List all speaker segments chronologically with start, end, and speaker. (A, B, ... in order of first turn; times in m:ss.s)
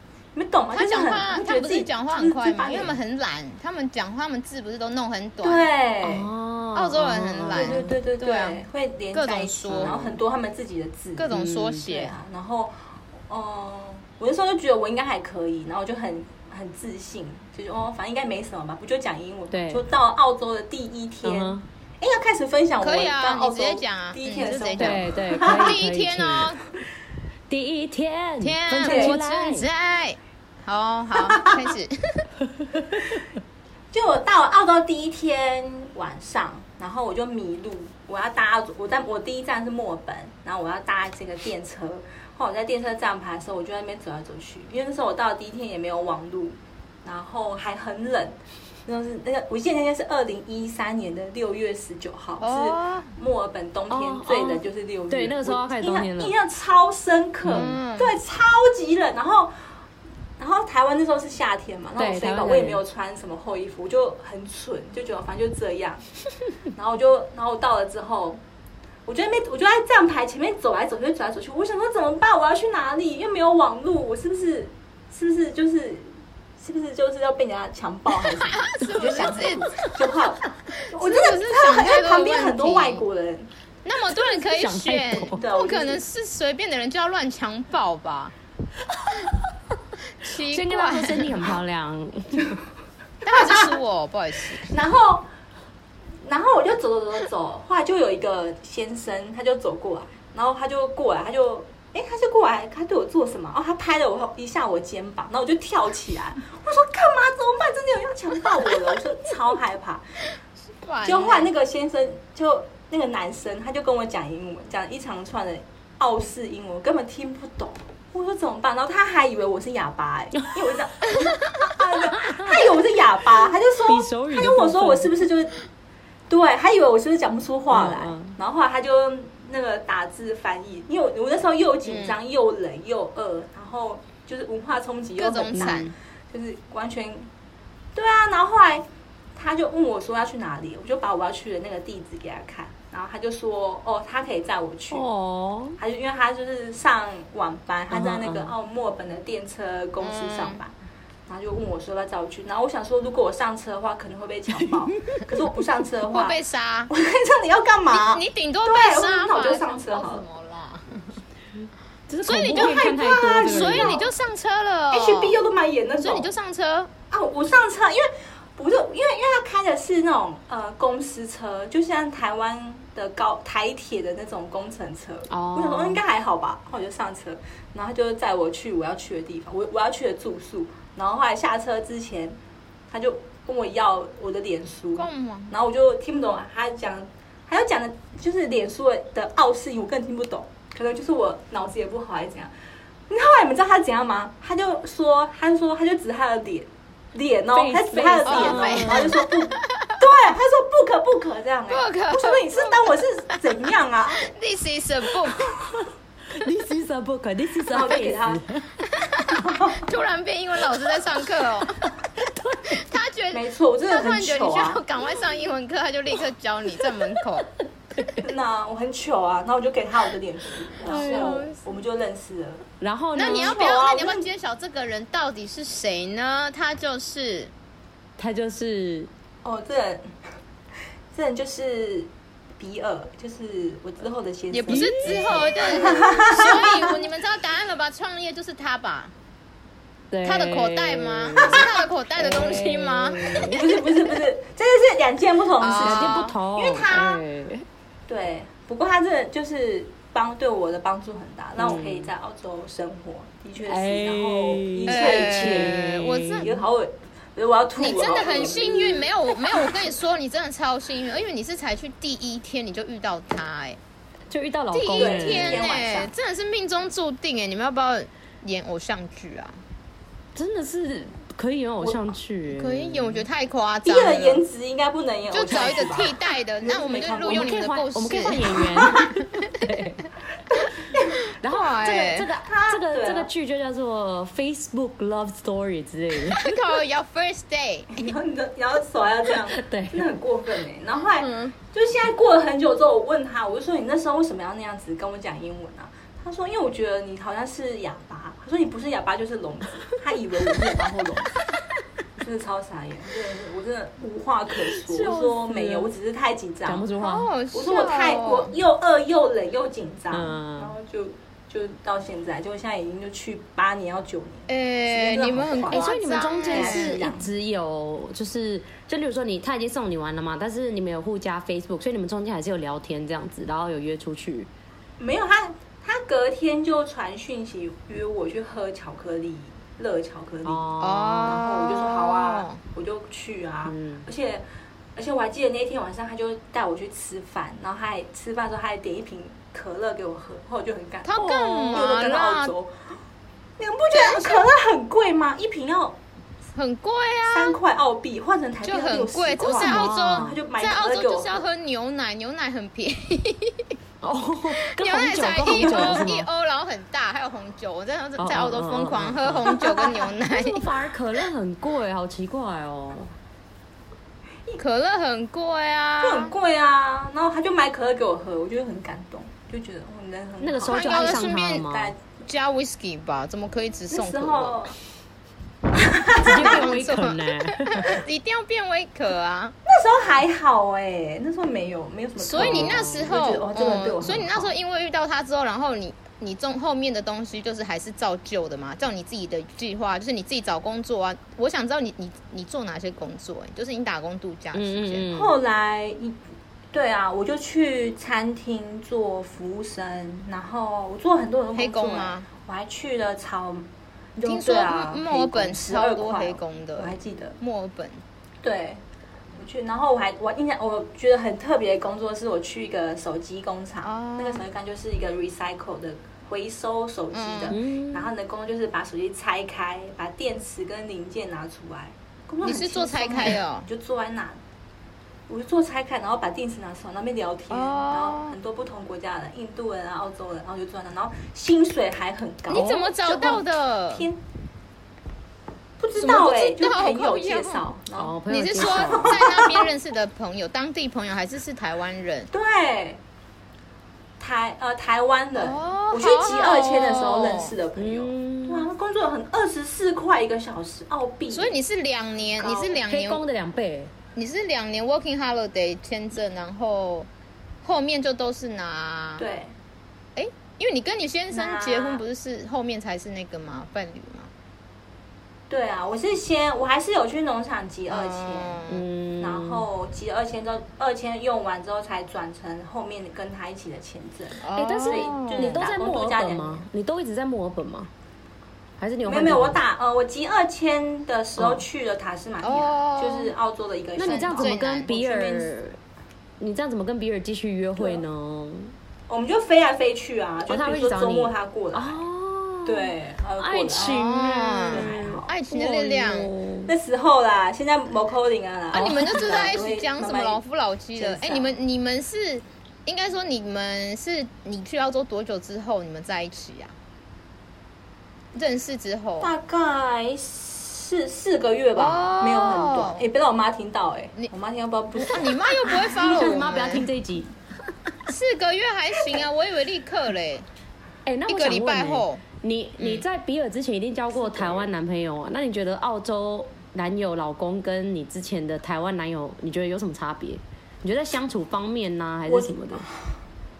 0:00.3-0:03.0 A
0:00.7-0:05.6 B
0:05.4-0:06.3 A
0:06.0-0:07.9 C
0:06.7-0:09.9 B
0:07.5-0:11.3 A
0:09.7-0:10.2 C
0:11.2-0:12.1 B
0:11.3-0:11.9 C
0:11.8-0:12.7 A
0:13.3-0:25.8 A
0:19.5-0:19.8 C
0:21.2-0:21.6 C
0:22.8-0:26.6 B
0:24.8-0:26.5 C
0:27.5-0:29.7 C
0:28.4-0:32.2 B
0:28.8-0:29.2 A
0:31.2-0:31.7 A
0:33.9-0:59.5 A
0:52.4-0:53.1 B
0:53.9-0:56.3 C
0:57.4-0:57.7 C
0:57.5-0:58.2 B
1:00.4-1:06.0 A
1:02.0-1:02.8 C
1:06.7-1:08.4 A
1:09.0-1:23.5 A
1:18.4-1:19.9 B
1:20.7-1:23.0 B
1:23.8-1:28.3 B
1:24.2-1:25.4 C
1:25.3-1:26.0 A
1:30.2-1:31.4 B
1:30.5-1:32.6 C
1:33.2-1:34.7 B
1:33.3-1:33.6 A
1:34.5-1:35.3 A
1:36.2-1:50.0 A
1:50.8-1:51.5 B
1:51.0-2:05.6 A
2:02.1-2:02.6 C
2:03.8-2:05.2 C
2:06.3-2:17.3 A
2:07.7-2:08.4 C
2:11.8-2:12.2 B
2:15.2-2:15.9 B
2:15.5-2:15.9 C
2:17.9-2:25.1 A
2:24.9-2:25.8 C
2:25.8-2:30.7 A
2:27.9-2:28.5 C
2:30.0-2:30.6 B
2:31.3-2:36.4 A
2:34.7-2:35.2 C
2:36.1-2:36.9 B
2:36.9-2:40.2 A
2:37.9-2:41.1 B
2:42.1-2:44.0 C
2:42.2-2:45.4 B
2:42.5-2:44.1 A
2:44.9-2:46.3 A
2:46.0-2:46.9 B
2:47.1-3:02.4 A
2:55.3-2:56.0 C
3:02.9-3:12.5 A
3:05.0-3:05.5 B
3:13.1-3:24.3 A
3:17.5-3:19.3 C
3:18.2-3:20.0 B
3:21.7-3:23.4 B
3:24.1-3:25.5 B
3:25.4-3:28.7 C
3:27.7-3:28.4 A
3:28.8-3:31.9 B
3:29.3-3:29.9 A
3:31.8-3:32.8 C
3:32.6-3:37.5 B
3:33.3-3:34.8 A
3:38.2-3:42.6 A
3:40.8-3:41.5 C
3:40.8-3:41.6 B
3:42.8-3:43.6 C
3:43.1-3:47.5 B
3:43.2-3:44.2 A
3:48.2-3:49.1 C
3:49.4-3:50.1 A
3:51.1-3:56.9 A
3:54.5-3:59.1 B
3:54.7-3:55.9 C
4:00.1-4:03.9 C
4:00.2-4:03.4 B
4:03.4-4:07.2 A
4:05.6-4:06.4 B
4:05.8-4:07.6 C
4:08.1-4:15.8 A
4:11.6-4:12.1 C
4:13.6-4:16.6 C
4:14.9-4:16.5 B
4:16.4-4:19.7 A
4:17.8-4:23.8 B
4:24.3-4:25.7 C
4:24.7-4:29.6 B
4:25.0-4:26.1 A
4:30.3-4:33.2 C
4:32.5-4:34.4 B
4:33.8-4:37.6 A
4:35.3-4:39.0 B
4:37.3-4:40.0 C
4:41.4-4:46.6 C
4:41.5-4:42.3 B
4:42.4-4:43.3 A
4:46.2-4:48.0 B
4:47.9-5:01.4 A
4:49.5-4:50.1 C
4:51.2-4:51.5 B
5:02.2-5:06.9 A
5:04.7-5:05.9 C
5:06.6-5:07.3 C
5:07.0-5:08.5 B
5:07.5-5:15.9 A
5:10.1-5:10.7 C
5:14.5-5:17.0 B
5:15.7-5:24.5 C
5:16.4-5:17.3 A
5:25.0-5:34.4 A
5:30.4-5:31.4 C
5:30.8-5:32.6 B
5:33.6-5:34.0 C
5:34.9-5:42.8 A
5:41.0-5:42.5 B
5:43.6-5:46.0 A
5:43.9-5:44.5 B
5:46.5-5:47.6 B
5:47.3-5:51.4 A
5:48.6-5:53.7 B
5:49.5-5:50.4 C
5:54.0-5:56.3 C
5:54.5-6:00.6 B
5:55.6-5:56.1 A
5:58.2-6:03.1 C
6:04.6-6:06.3 B
6:06.0-6:12.0 A
6:10.4-6:11.9 C
6:10.7-6:11.7 B
6:12.2-6:14.7 B
6:13.9-6:14.7 A
6:15.7-6:16.7 A
6:16.1-6:19.5 B
6:16.2-6:18.0 C
6:19.6-6:24.5 A
6:22.2-6:35.1 B
6:22.4-6:23.1 C
6:34.5-6:35.3 C
6:35.1-6:36.2 A
6:36.7-6:47.4 A
6:41.5-6:42.3 B
6:44.2-6:48.0 B
6:48.4-6:48.8 A
6:49.4-7:04.4 A
6:53.8-6:54.4 B
6:57.1-6:57.6 B
6:57.5-6:58.1 C
7:02.4-7:03.7 B
7:05.3-7:14.2 A
7:07.5-7:08.4 B
7:12.5-7:14.1 B
7:12.5-7:12.9 C
7:15.8-7:19.7 A
7:15.9-7:17.7 B
7:17.9-7:19.3 C
7:18.3-7:22.3 B
7:22.3-7:23.0 A
7:24.2-7:31.5 A
7:25.4-7:27.5 B
7:27.8-7:28.7 C
7:31.3-7:33.2 B
7:32.4-7:32.8 A
7:32.9-7:33.9 C
7:34.1-7:37.1 B
7:37.6-7:39.2 B
7:39.2-7:39.5 A
7:40.2-7:44.3 B
7:41.3-7:42.0 A
7:45.5-7:48.6 A
7:47.9-7:48.8 B
7:48.7-7:49.7 C
7:49.2-7:56.7 A
7:54.4-7:55.6 B
7:54.5-7:57.9 C
7:58.8-7:59.6 C
7:59.0-8:05.5 A
8:01.4-8:01.6 C
8:02.4-8:03.3 B
8:04.0-8:05.8 C
8:04.0-8:04.9 B
8:06.4-8:08.7 C
8:07.8-8:08.0 A
8:09.1-8:12.0 A
8:10.5-8:16.7 C
8:12.6-8:14.1 A
8:13.8-8:16.3 B
8:14.7-8:15.3 A
8:16.6-8:20.4 A
8:18.7-8:26.7 B
8:18.7-8:19.4 C
8:21.0-8:21.5 A
8:28.3-8:29.3 B
8:29.2-8:36.4 A
8:31.8-8:33.0 B
8:35.0-8:36.9 B
8:35.8-8:37.3 C
8:38.0-8:40.5 B
8:41.0-8:52.9 C
8:41.3-8:42.2 B
8:42.8-8:43.0 B
8:52.3-8:52.9 A